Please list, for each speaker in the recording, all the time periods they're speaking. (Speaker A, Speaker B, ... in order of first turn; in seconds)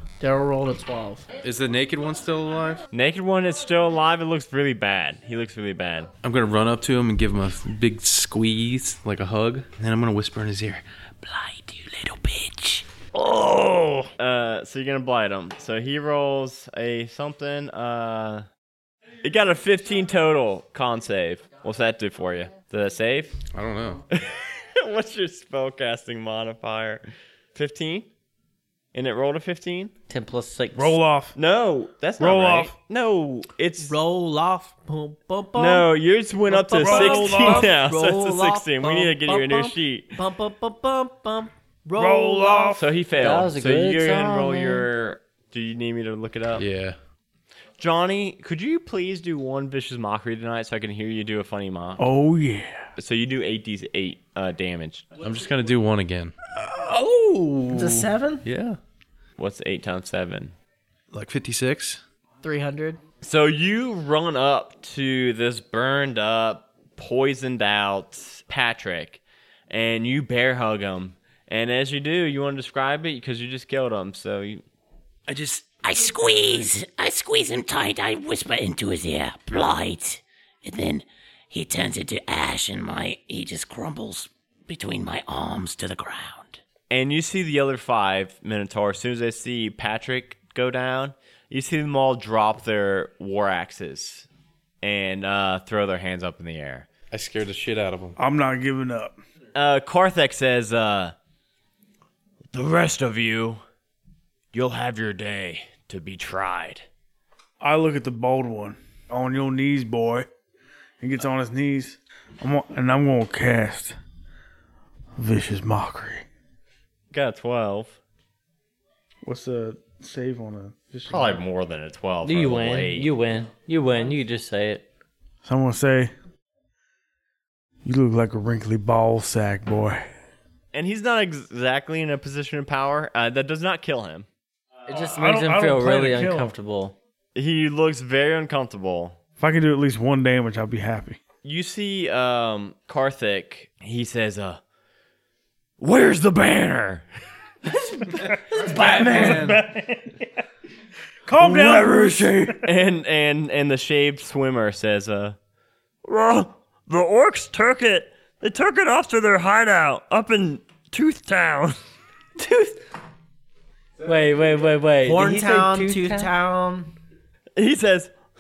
Speaker A: 0.2-1.3, 33.8-35.9, 36.5-42.8, 56.7-58.4, 62.4-63.0, 165.1-166.9
Speaker B: 1.4-2.8, 6.2-12.9, 23.5-24.0, 46.6-47.0, 55.2-56.3, 57.4-58.8, 61.1-62.0, 97.1-98.2
Speaker C: 2.9-6.1, 13.2-18.5, 19.2-23.4, 24.1-27.0, 27.6-28.1, 28.9-29.9, 31.4-34.0, 35.6-40.2, 42.8-46.6, 47.8-52.1, 53.0-55.1, 59.4-60.5, 63.2-74.6, 86.9-94.3, 94.8-96.9, 99.5-101.1, 102.5-103.6, 104.5-106.9, 117.1-118.0, 121.1-123.1, 130.7-134.3, 137.3-139.2, 141.4-144.6, 145.8-147.1, 147.8-149.6, 151.4-155.4, 156.1-161.8, 167.6-168.1
Speaker D: 30.1-31.0, 43.2-44.9, 122.2-124.9, 134.9-137.0, 164.0-166.3
Speaker E: 30.8-31.4, 32.2-32.7, 36.8-37.7, 42.0-42.9, 52.0-52.8, 98.2-99.2, 107.6-110.3, 111.0-114.0, 115.2-116.3, 119.2-121.4, 125.4-126.1, 127.8-130.1, 134.9-136.6, 139.4-141.2, 148.6-150.3, 151.3-152.7
Speaker F: 75.3-86.6